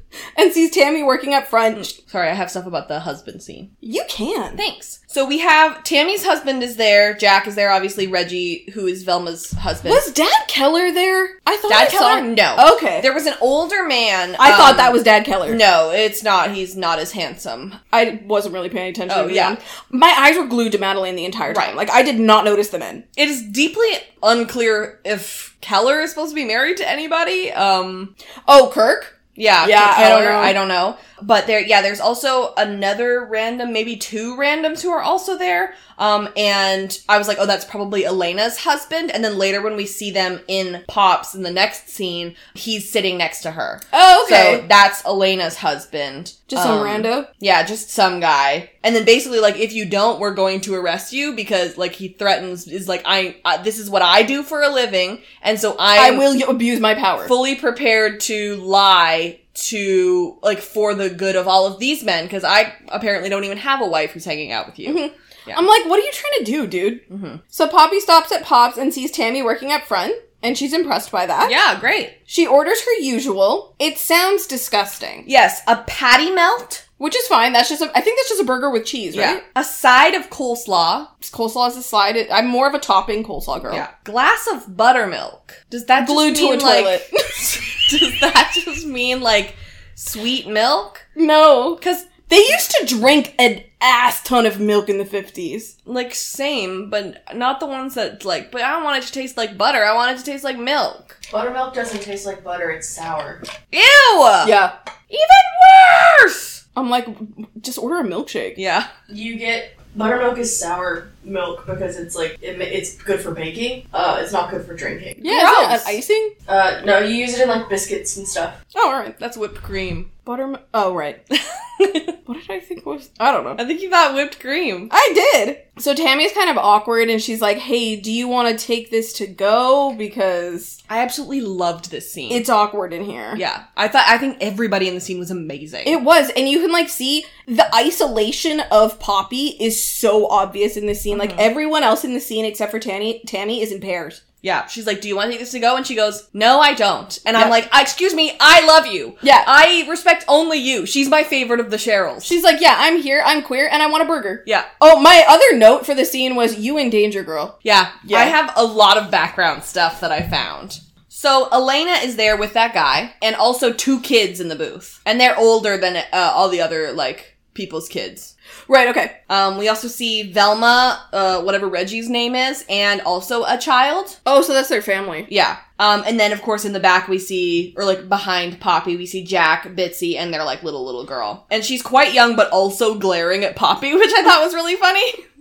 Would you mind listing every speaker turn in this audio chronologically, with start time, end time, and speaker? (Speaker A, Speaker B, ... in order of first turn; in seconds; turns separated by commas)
Speaker A: 0.4-1.9, Speaker B: 1.8-3.7, Speaker A: 3.8-4.6, Speaker B: 4.6-10.1, Speaker A: 9.8-13.1, Speaker B: 11.7-17.8, Speaker A: 14.4-15.6, Speaker A: 17.9-23.0, Speaker B: 19.1-19.6, Speaker B: 21.5-21.7, Speaker B: 23.2-28.1, Speaker A: 28.5-30.6, Speaker B: 29.4-56.3, Speaker A: 43.9-44.6, Speaker A: 46.5-47.3, Speaker A: 56.0-57.3, Speaker B: 57.2-65.6, Speaker A: 64.8-71.5, Speaker B: 67.1-67.4, Speaker B: 71.4-72.2, Speaker A: 72.3-75.3, Speaker B: 75.3-76.8, Speaker A: 77.0-79.4, Speaker B: 79.1-81.1, Speaker A: 81.2-83.8, Speaker B: 83.7-91.0, Speaker A: 86.0-87.7, Speaker A: 91.2-95.7, Speaker B: 91.8-92.1, Speaker B: 95.9-101.2, Speaker C: 101.3-103.4, Speaker B: 103.7-104.5, Speaker A: 104.4-104.7, Speaker B: 105.1-106.6, Speaker A: 106.8-108.6, Speaker B: 108.6-108.9, Speaker C: 109.1-115.3, Speaker A: 115.2-116.3, Speaker B: 115.2-116.0, Speaker C: 116.5-118.6, Speaker A: 118.7-119.2, Speaker B: 119.2-120.1, Speaker A: 120.2-121.2, Speaker B: 121.8-122.1, Speaker A: 122.3-123.6, Speaker B: 123.6-124.9, Speaker A: 124.9-130.8, Speaker B: 130.9-132.5, Speaker A: 132.3-133.4, Speaker B: 133.3-136.0, Speaker A: 135.8-144.2, Speaker B: 141.1-141.5, Speaker B: 144.4-152.3, Speaker A: 149.2-149.5, Speaker A: 152.2-158.3, Speaker B: 157.7-168.3, Speaker A: 168.7-169.1, Speaker B: 169.3-174.2, Speaker A: 174.2-175.3, Speaker B: 175.3-185.2